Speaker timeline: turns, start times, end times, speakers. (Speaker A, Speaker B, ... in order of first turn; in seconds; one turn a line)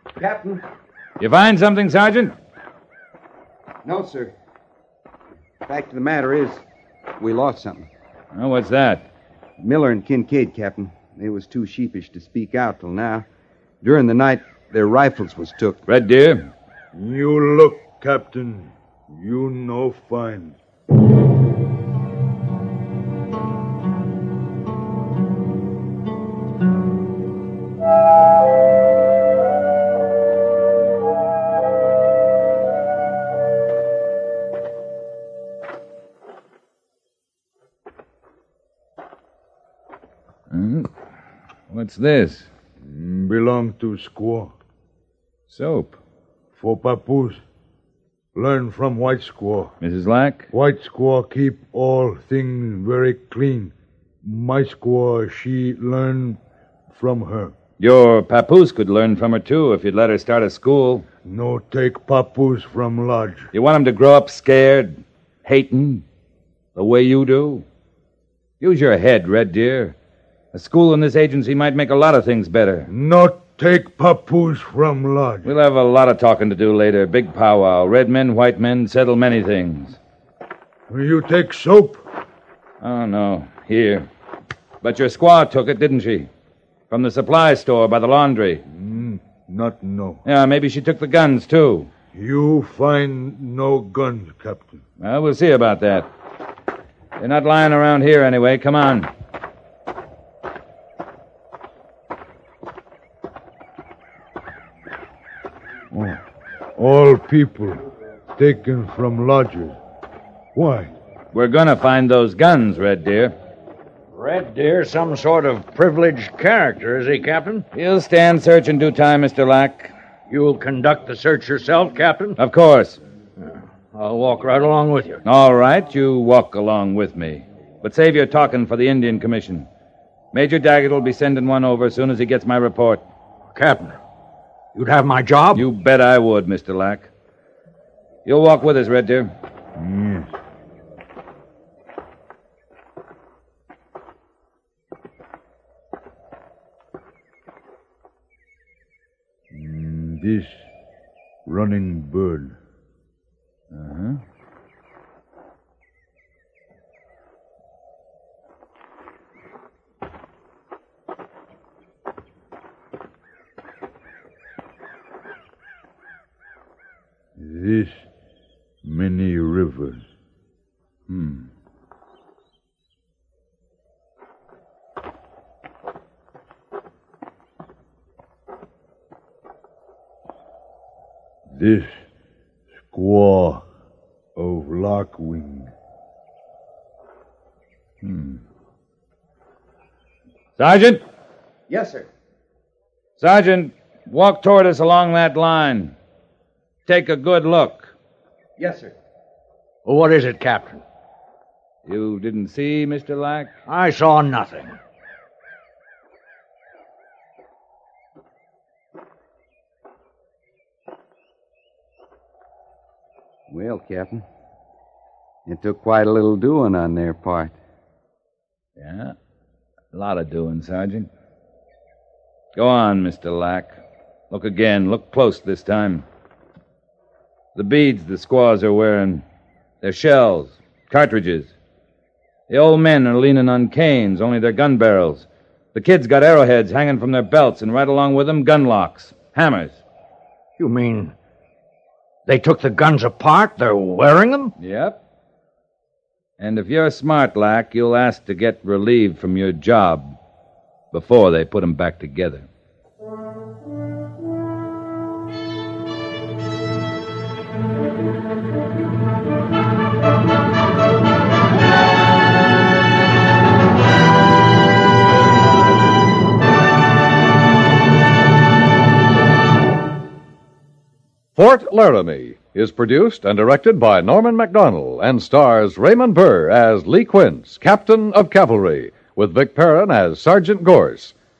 Speaker A: 0.2-0.6
Speaker B: 1.2-2.4
Speaker A: 3.8-4.3
Speaker A: 5.7-6.6
Speaker A: 7.2-7.9
Speaker B: 8.3-9.1
Speaker A: 9.6-13.3
Speaker A: 13.8-15.8
Speaker B: 15.9-16.5
Speaker C: 16.9-20.6
Speaker B: 40.5-40.9
Speaker B: 41.7-42.5
Speaker C: 42.8-44.5
Speaker B: 45.5-46.0
Speaker C: 46.5-47.4
Speaker C: 48.4-49.7
Speaker B: 49.8-50.5
Speaker C: 50.5-56.4
Speaker C: 56.9-57.5
Speaker B: 57.8-61.0
Speaker C: 61.2-63.5
Speaker B: 63.5-66.0
Speaker B: 66.8-67.7
Speaker B: 68.6-70.0
Speaker B: 70.5-72.9
Speaker C: 72.9-75.5
Speaker B: 75.5-80.0
Speaker C: 80.9-82.0
Speaker B: 82.8-84.1
Speaker B: 84.8-86.3
Speaker B: 86.9-88.6
Speaker C: 88.7-90.2
Speaker B: 90.2-91.9
Speaker C: 92.1-94.8
Speaker B: 95.0-96.1
Speaker B: 97.2-99.1
Speaker C: 105.9-106.2
Speaker C: 106.8-109.8
Speaker C: 110.5-110.9
Speaker B: 111.3-113.3
Speaker D: 114.1-117.7
Speaker B: 117.7-119.9
Speaker D: 120.3-122.4
Speaker B: 122.4-123.0
Speaker D: 123.4-125.2
Speaker B: 125.2-129.7
Speaker B: 130.3-133.1
Speaker D: 133.5-134.0
Speaker D: 134.7-135.7
Speaker B: 135.6-137.1
Speaker B: 138.2-139.3
Speaker C: 139.8-140.3
Speaker C: 149.5-150.7
Speaker C: 151.5-152.6
Speaker B: 153.7-154.2
Speaker C: 167.4-168.1
Speaker C: 168.8-170.1
Speaker B: 171.1-171.5
Speaker C: 181.5-182.0
Speaker C: 182.9-183.7
Speaker C: 184.4-185.7
Speaker B: 188.0-188.4
Speaker B: 190.6-191.1
Speaker A: 191.7-192.1
Speaker B: 193.2-195.9
Speaker B: 196.9-197.9
Speaker A: 198.6-198.9
Speaker D: 199.8-200.8
Speaker B: 201.9-203.5
Speaker D: 203.7-204.8
Speaker A: 213.5-214.2
Speaker A: 215.5-217.6
Speaker B: 218.8-219.2
Speaker B: 219.9-221.1
Speaker B: 222.6-223.8
Speaker B: 224.3-226.1
Speaker B: 227.6-229.2
Speaker B: 229.8-231.5
Speaker B: 232.5-239.8
Speaker D: 240.6-241.2
Speaker D: 242.3-244.5
Speaker B: 244.6-245.0
Speaker B: 246.4-250.2
Speaker B: 250.9-252.5
Speaker E: 271.4-281.1